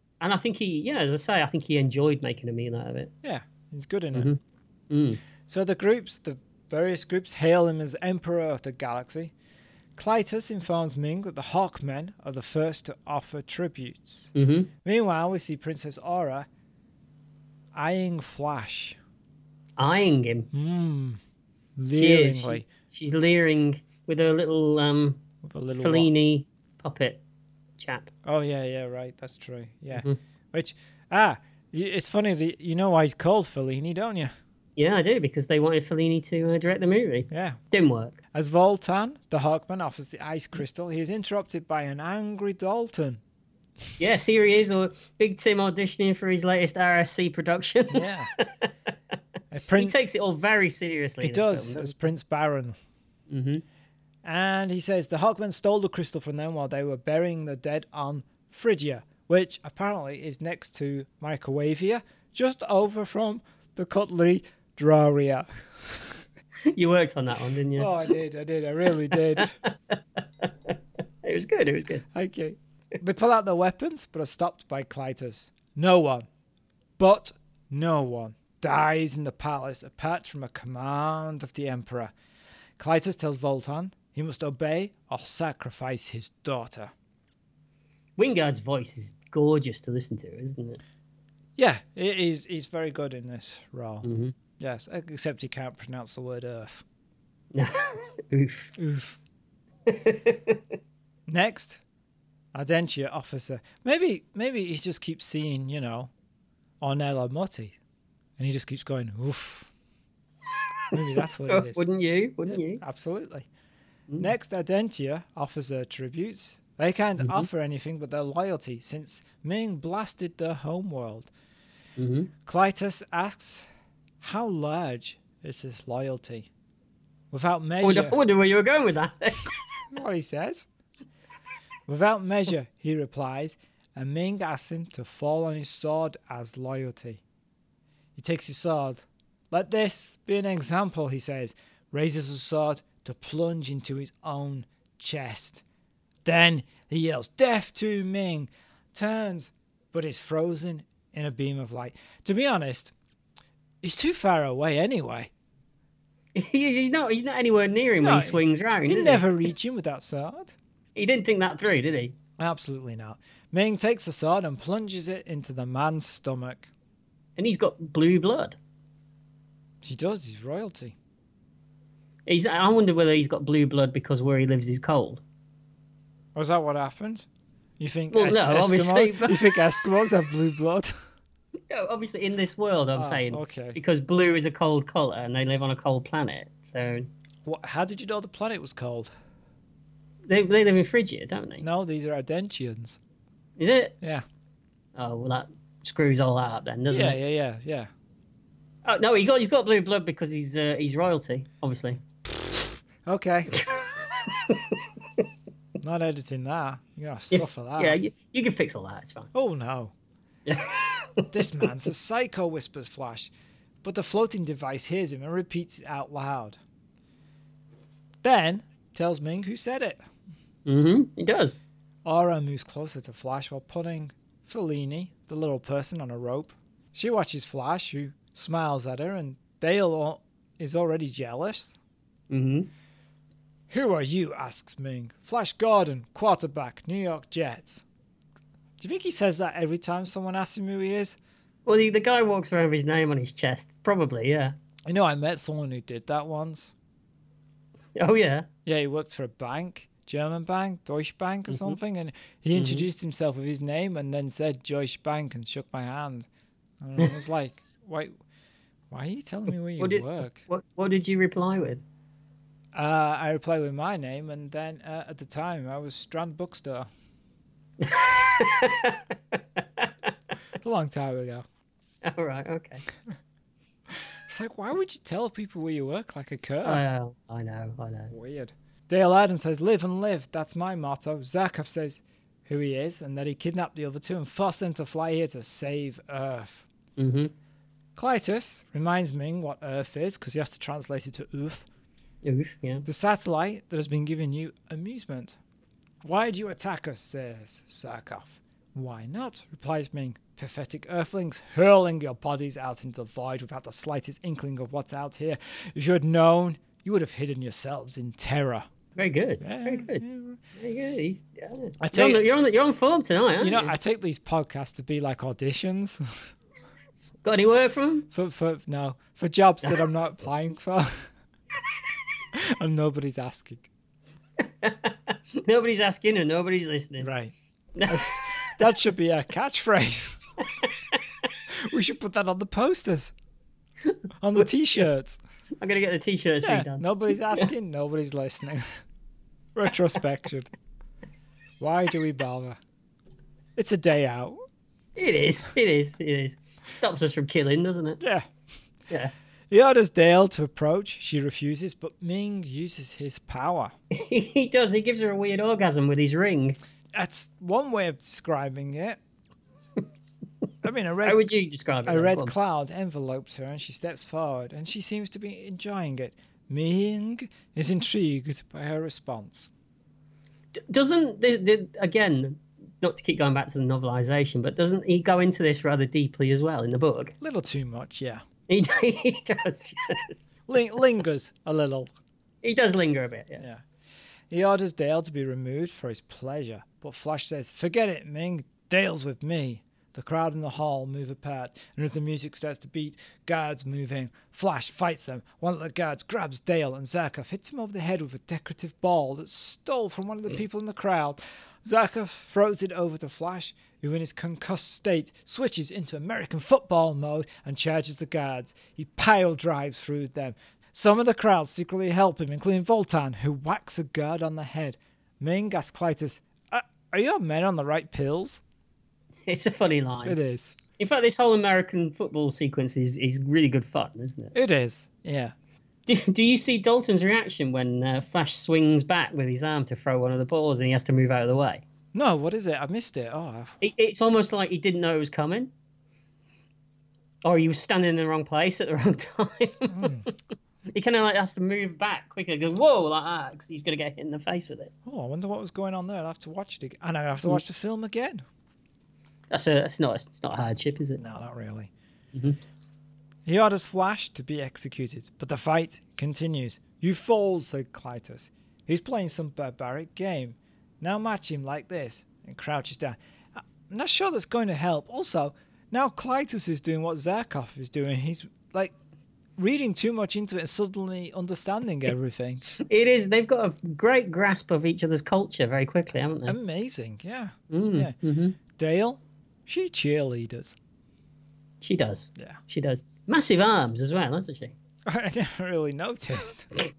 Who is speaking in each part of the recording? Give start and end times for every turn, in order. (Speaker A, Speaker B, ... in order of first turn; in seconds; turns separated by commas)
Speaker A: 0.2-3.1, Speaker B: 3.2-4.3, Speaker A: 4.9-5.2, Speaker B: 5.5-9.3, Speaker B: 9.9-14.3, Speaker A: 14.3-14.7, Speaker B: 14.8-16.5, Speaker B: 17.7-19.0, Speaker A: 19.8-20.5, Speaker B: 20.5-21.2, Speaker B: 21.8-22.6, Speaker A: 21.9-25.2, Speaker B: 25.4-26.1, Speaker A: 25.8-27.2, Speaker A: 27.8-28.1, Speaker B: 28.2-34.3, Speaker A: 34.8-38.1, Speaker B: 37.3-37.6, Speaker B: 38.3-43.2, Speaker A: 44.0-48.7, Speaker B: 47.9-48.3, Speaker B: 49.5-49.9, Speaker A: 49.8-51.9, Speaker B: 51.2-52.8, Speaker A: 53.3-53.6, Speaker B: 54.2-66.2, Speaker A: 66.7-67.9, Speaker B: 67.8-69.5, Speaker A: 69.3-72.0, Speaker B: 72.1-76.3, Speaker B: 77.0-82.1, Speaker B: 82.8-86.9, Speaker A: 88.2-90.8, Speaker B: 91.6-94.1, Speaker A: 94.0-94.3, Speaker B: 94.6-96.8, Speaker A: 97.5-98.7, Speaker B: 98.8-99.2, Speaker A: 99.9-100.6, Speaker B: 101.3-101.8, Speaker B: 102.5-106.1, Speaker B: 106.8-107.8, Speaker B: 108.4-109.7, Speaker B: 110.9-111.8, Speaker A: 111.5-112.8, Speaker B: 112.5-113.5, Speaker B: 114.2-121.3, Speaker A: 117.2-117.5, Speaker A: 122.0-122.3, Speaker B: 122.5-123.7, Speaker B: 124.2-126.5, Speaker B: 127.3-128.2, Speaker A: 127.8-129.5, Speaker B: 129.9-130.7, Speaker B: 131.9-137.2, Speaker B: 138.2-145.6, Speaker B: 146.2-152.9, Speaker B: 153.8-155.3, Speaker A: 156.3-159.3, Speaker B: 158.0-160.5, Speaker A: 160.9-162.1, Speaker B: 162.4-166.7, Speaker A: 167.4-168.6, Speaker B: 169.8-170.9, Speaker A: 172.3-175.2, Speaker B: 176.3-177.3, Speaker B: 177.8-180.9, Speaker A: 178.1-179.6, Speaker A: 181.7-187.1, Speaker B: 182.9-183.8, Speaker B: 187.4-189.1, Speaker A: 190.3-191.6, Speaker B: 191.6-193.0, Speaker A: 193.6-193.9, Speaker A: 194.9-197.2, Speaker B: 196.9-197.9, Speaker A: 198.8-202.0, Speaker B: 203.0-203.5, Speaker A: 203.6-204.8, Speaker B: 205.8-208.0, Speaker A: 207.3-209.3, Speaker B: 209.3-209.9, Speaker A: 210.5-211.3, Speaker B: 211.3-213.3, Speaker B: 213.8-216.6, Speaker B: 218.2-220.0, Speaker A: 220.7-221.6, Speaker B: 222.0-231.8, Speaker A: 232.3-232.7, Speaker B: 233.7-237.8, Speaker B: 238.8-241.2, Speaker A: 241.7-244.6, Speaker B: 244.8-246.7, Speaker A: 247.9-248.5, Speaker B: 248.7-256.3, Speaker A: 251.5-251.8, Speaker A: 252.5-252.8, Speaker B: 256.8-258.2, Speaker B: 258.9-260.4, Speaker A: 259.8-261.8, Speaker B: 262.7-266.9, Speaker A: 267.8-269.9, Speaker B: 270.6-271.4, Speaker A: 272.0-272.8, Speaker B: 273.9-276.8, Speaker A: 276.6-278.1, Speaker B: 278.1-286.6, Speaker A: 287.0-287.3, Speaker B: 287.9-291.7, Speaker A: 292.2-292.9, Speaker B: 292.9-295.4, Speaker B: 296.0-308.7, Speaker A: 308.9-310.0, Speaker B: 309.4-310.4, Speaker A: 310.6-313.7, Speaker B: 311.8-312.2, Speaker B: 313.4-316.0, Speaker A: 317.2-318.1, Speaker B: 318.1-321.1, Speaker B: 322.3-323.7, Speaker A: 324.6-327.1, Speaker B: 327.0-327.3, Speaker A: 327.8-328.2, Speaker B: 327.9-330.2, Speaker B: 331.5-333.1, Speaker A: 333.9-334.4, Speaker B: 334.2-335.2, Speaker A: 335.6-337.5, Speaker B: 336.4-338.8, Speaker B: 339.5-340.5, Speaker B: 341.6-342.6, Speaker B: 343.6-344.4, Speaker A: 344.9-348.0, Speaker B: 348.0-348.3, Speaker B: 349.5-353.7, Speaker A: 353.9-356.6, Speaker B: 356.9-359.0, Speaker B: 360.6-361.3, Speaker A: 361.0-362.3, Speaker B: 361.8-369.5, Speaker A: 370.5-377.1, Speaker B: 377.2-378.2, Speaker A: 378.5-380.4, Speaker B: 380.5-381.9, Speaker A: 382.4-383.4, Speaker B: 384.3-418.4, Speaker A: 419.3-420.2, Speaker B: 420.0-420.5, Speaker A: 420.8-424.3, Speaker B: 424.3-425.3, Speaker A: 425.9-431.6, Speaker B: 431.9-433.6, Speaker A: 433.6-435.5, Speaker A: 437.2-440.1, Speaker B: 439.7-440.0, Speaker A: 440.7-444.7, Speaker B: 444.9-448.2, Speaker A: 449.3-451.0, Speaker B: 451.0-451.7, Speaker A: 452.1-452.4, Speaker B: 453.2-468.7, Speaker B: 469.4-472.4, Speaker A: 472.6-476.4, Speaker B: 476.3-477.9, Speaker A: 477.5-478.4, Speaker B: 478.5-480.6, Speaker A: 481.6-484.5, Speaker B: 484.9-486.5